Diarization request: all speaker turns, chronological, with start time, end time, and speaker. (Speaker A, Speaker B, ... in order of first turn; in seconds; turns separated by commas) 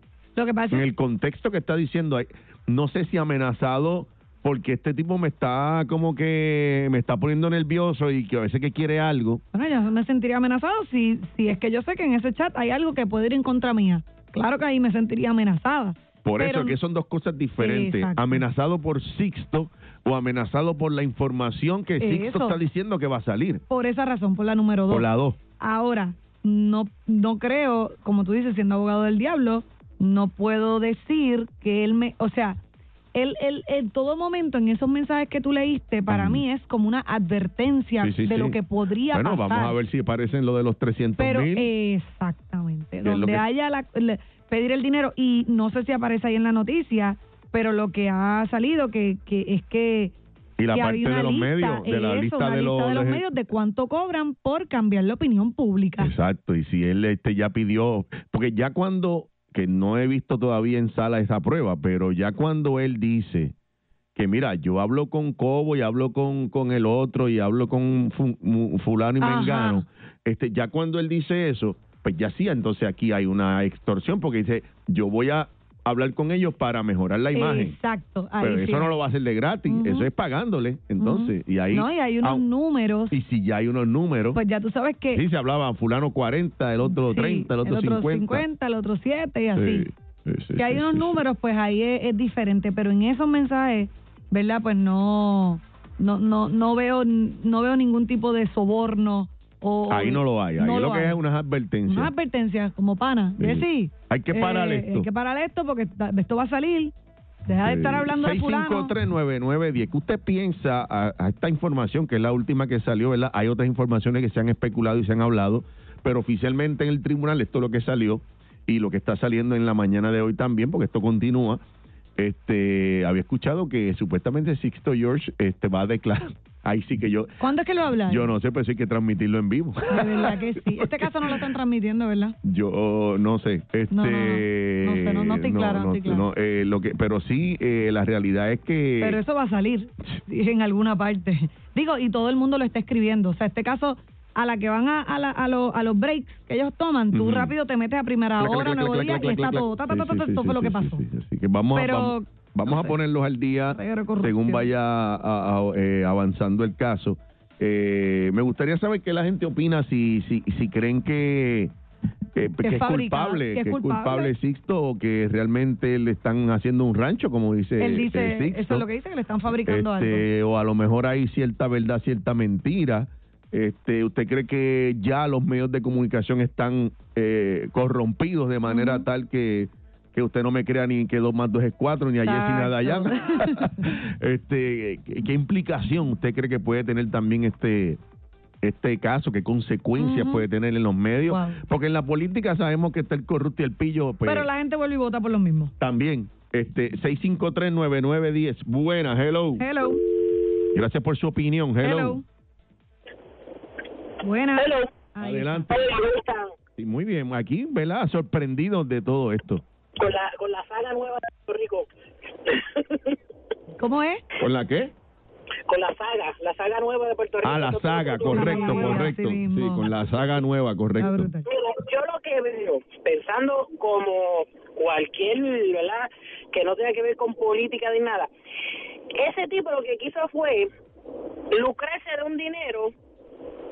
Speaker A: 0.4-0.9, Speaker B: 0.7-9.4, Speaker A: 9.5-16.8, Speaker B: 16.2-23.6, Speaker A: 17.6-18.4, Speaker A: 22.0-22.6, Speaker A: 23.7-25.1, Speaker B: 24.9-25.4, Speaker A: 25.6-32.6, Speaker A: 33.1-39.8, Speaker B: 36.1-36.4, Speaker B: 38.0-38.6, Speaker B: 39.1-41.7, Speaker A: 41.2-50.1, Speaker B: 43.0-43.5, Speaker B: 50.6-53.2, Speaker A: 50.7-56.1, Speaker B: 56.0-63.5, Speaker B: 64.2-77.8, Speaker A: 69.2-69.8, Speaker A: 77.3-79.0, Speaker B: 78.4-82.5, Speaker A: 79.7-80.1, Speaker A: 81.0-83.2, Speaker B: 83.1-84.4, Speaker A: 84.3-85.2, Speaker B: 85.1-88.4, Speaker A: 86.9-89.9, Speaker B: 89.5-91.1, Speaker A: 90.5-101.2, Speaker B: 99.9-102.1, Speaker A: 101.9-106.9, Speaker B: 103.4-105.1, Speaker A: 107.5-108.9, Speaker B: 107.6-121.6, Speaker B: 122.2-127.3, Speaker A: 127.4-128.3, Speaker B: 128.1-131.1, Speaker A: 129.9-132.4, Speaker B: 132.4-139.2, Speaker A: 133.9-136.3, Speaker A: 139.0-151.0, Speaker B: 147.1-147.5, Speaker B: 148.4-161.7, Speaker A: 151.7-152.9, Speaker A: 153.7-154.7, Speaker B: 162.3-168.8, Speaker A: 162.6-164.3, Speaker A: 167.8-170.2, Speaker B: 169.6-188.0, Speaker A: 178.7-179.1, Speaker A: 182.2-183.9, Speaker B: 188.6-194.5, Speaker A: 190.0-190.5, Speaker A: 191.3-191.6, Speaker A: 194.2-195.7, Speaker B: 195.8-199.7, Speaker A: 199.6-200.0, Speaker B: 200.7-202.2, Speaker A: 201.8-202.2, Speaker A: 204.2-205.7, Speaker C: 204.6-204.9, Speaker B: 205.2-205.9, Speaker C: 205.7-206.5, Speaker B: 206.8-209.6, Speaker C: 210.0-211.9, Speaker C: 212.5-213.2, Speaker A: 213.8-214.2, Speaker B: 214.4-214.9, Speaker C: 215.7-219.1, Speaker B: 217.4-221.3, Speaker A: 218.3-219.9, Speaker A: 221.0-221.5, Speaker C: 221.5-228.3, Speaker C: 229.2-230.7, Speaker C: 231.5-232.9